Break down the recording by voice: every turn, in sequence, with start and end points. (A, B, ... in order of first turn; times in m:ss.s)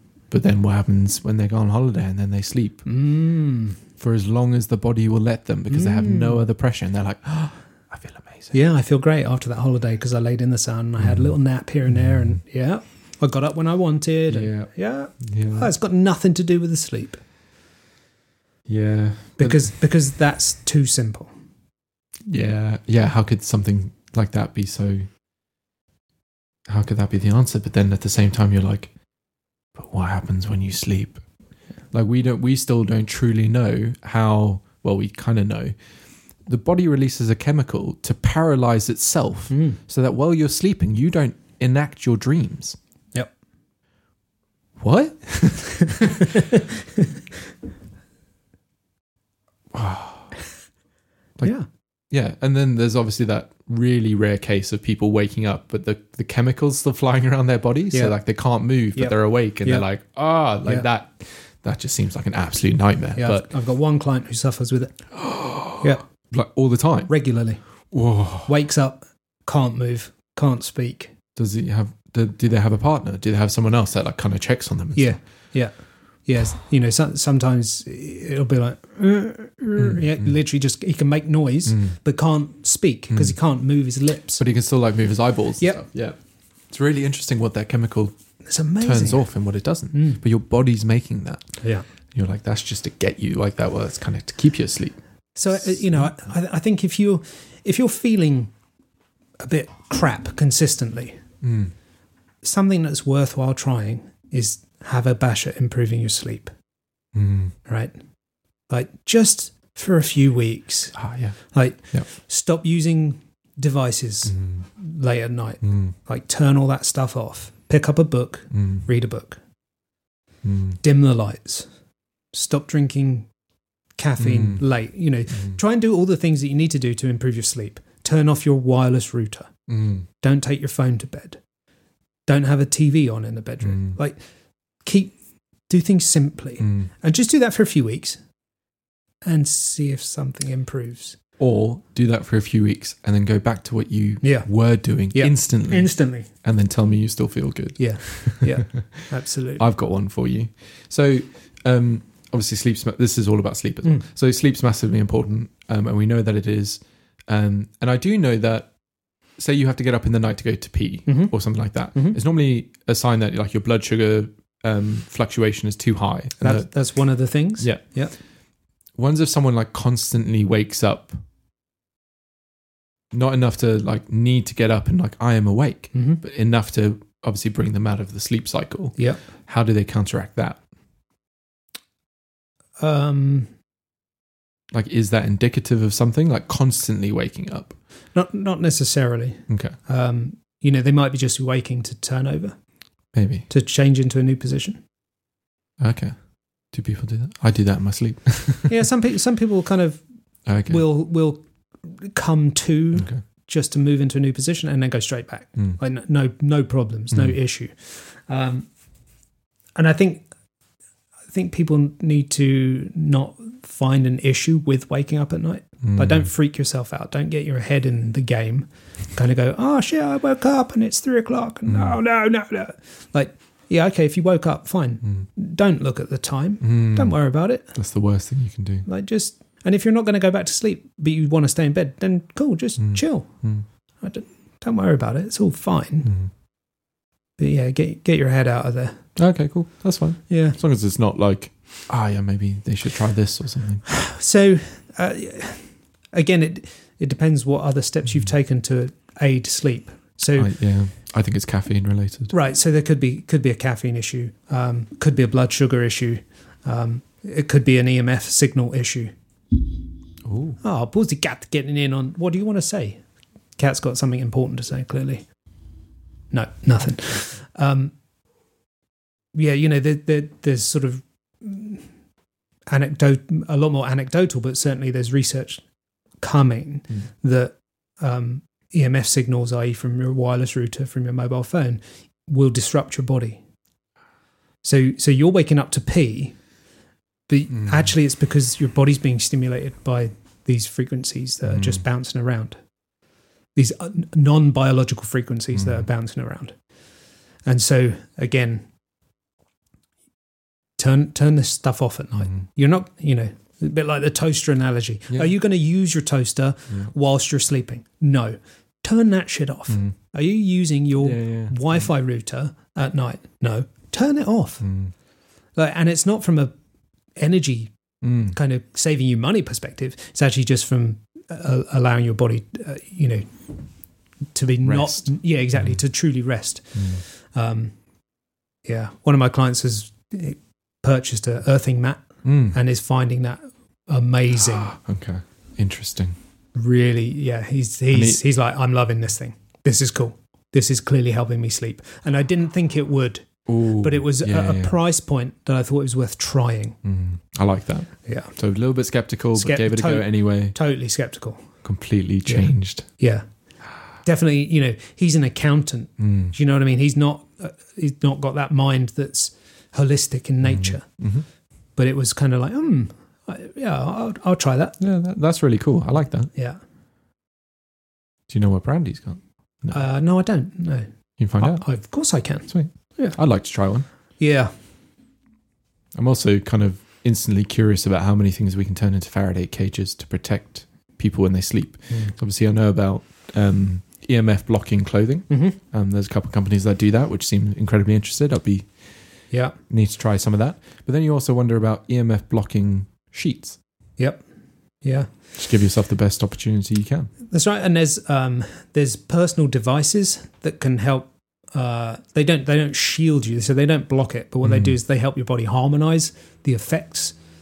0:00.3-0:02.8 A
0:02.8-0:03.8 B
0:04.0-0:08.5 A
0:05.7-0:06.4 B
0:08.5-0:17.2 B
0:11.0-0:11.3 A
0:14.3-0:15.7 A
0:18.7-0:19.6 A
0:19.4-0:21.3 B
0:22.3-0:25.1 A
0:26.7-0:28.9 A
0:29.7-0:31.2 A
0:31.9-0:35.7 A
0:36.4-0:42.8 A
0:39.5-0:39.8 B
0:44.8-0:46.4 A
0:46.3-0:47.1 B
0:49.7-0:50.4 A
0:52.1-1:03.5 A
0:58.9-0:59.8 B
1:03.2-1:05.1 B
1:05.1-1:07.1 A
1:07.1-1:07.6 B
1:07.9-1:08.5 A
1:08.4-1:11.1 B
1:11.4-1:15.1 A
1:14.9-1:15.7 B
1:16.2-1:24.4 B
1:19.8-1:20.3 A
1:21.7-1:21.9 A
1:23.1-1:23.4 A
1:24.4-1:26.2 A
1:26.7-1:28.1 A
1:28.4-1:29.2 B
1:28.8-1:31.4 A
1:29.9-1:30.2 B
1:32.1-1:35.0 A
1:35.4-1:38.5 B
1:35.5-1:36.1 A
1:39.4-1:41.2 B
1:41.4-1:41.7 A
1:42.4-1:46.5 B
1:47.1-1:47.5 A
1:47.6-1:47.9 B
1:48.7-1:59.4 B
1:50.9-1:51.4 A
1:54.3-1:54.6 A
1:55.6-1:55.9 A
1:58.5-1:58.8 A
2:00.4-2:00.8 A
2:00.8-2:01.7 B
2:02.3-2:03.3 B
2:04.0-2:09.5 B
2:04.2-2:04.6 A
2:09.7-2:10.1 A
2:10.2-2:11.4 B
2:12.3-2:14.2 B
2:13.6-2:14.0 A
2:14.8-2:15.2 B
2:15.7-2:18.2 B
2:16.6-2:16.9 A
2:19.2-2:21.2 B
2:21.4-2:25.9 A
2:24.2-2:24.5 B
2:25.1-2:26.3 B
2:26.4-2:29.1 A
2:27.8-2:29.6 B
2:29.6-2:38.7 A
2:39.4-2:46.7 A
2:41.0-2:41.3 B
2:46.4-2:48.1 B
2:49.0-2:51.2 A
2:53.1-2:59.0 A
2:55.9-2:56.2 B
2:59.5-3:00.6 A
3:02.8-3:03.5 B
3:04.7-3:07.8 A
3:08.1-3:12.6 B
3:09.5-3:09.8 A
3:13.1-3:13.5 A
3:13.5-3:14.8 B
3:15.8-3:16.2 A
3:16.7-3:18.8 A
3:18.7-3:20.0 B
3:20.4-3:20.8 A
3:20.7-3:28.7 B
3:23.0-3:23.2 A
3:29.8-3:30.2 B
3:31.3-3:47.7 B
3:35.8-3:36.3 A
3:41.7-3:42.0 A
3:46.6-3:47.2 A
3:47.7-3:48.8 A
3:48.8-3:53.3 B
3:52.8-3:53.6 A
3:54.0-3:56.1 B
3:56.0-3:56.3 A
3:57.4-3:59.0 B
3:59.2-4:03.8 A
4:00.3-4:00.6 B
4:03.9-4:10.5 B
4:10.4-4:12.3 A
4:12.3-4:19.1 B
4:20.2-4:20.6 A
4:20.6-4:23.0 B
4:23.6-4:25.2 B
4:26.3-4:27.9 B
4:29.3-4:31.9 B
4:32.7-4:35.6 B
4:36.2-4:43.4 B
4:44.6-4:46.4 B
4:47.3-4:52.6 B
4:47.5-4:47.9 A
4:51.5-4:51.8 A
4:53.5-4:56.6 B
4:55.6-4:55.8 A
4:57.4-4:58.6 B
5:00.8-5:14.6 B
5:11.0-5:11.9 A
5:14.6-5:14.9 A
5:15.6-5:16.5 B
5:17.2-5:17.7 B
5:18.0-5:18.4 A
5:18.3-5:23.3 B
5:24.3-5:27.7 B
5:24.6-5:25.8 A
5:26.8-5:27.0 A
5:28.6-5:34.7 B
5:32.2-5:32.6 A
5:34.3-5:36.2 A
5:36.5-5:46.8 B
5:37.9-5:38.2 A
5:43.5-5:44.7 A
5:46.8-5:50.6 A
5:48.0-5:48.3 B
5:49.4-5:51.5 B
5:51.6-5:52.8 A
5:52.2-5:53.2 B
5:54.0-6:00.8 B
5:56.0-5:56.3 A
6:00.4-6:01.2 A
6:01.8-6:04.8 B
6:04.8-6:06.3 A
6:08.3-6:09.8 A
6:09.7-6:10.9 B
6:11.2-6:11.6 A
6:11.4-6:13.2 B
6:12.5-6:13.8 A
6:14.2-6:14.5 B
6:15.9-6:28.7 A
6:25.3-6:25.6 B
6:29.3-6:29.6 B
6:29.7-6:33.6 A
6:34.0-6:34.2 B
6:34.8-6:35.1 B
6:35.4-6:37.1 A
6:37.3-6:47.2 B
6:44.4-6:44.8 A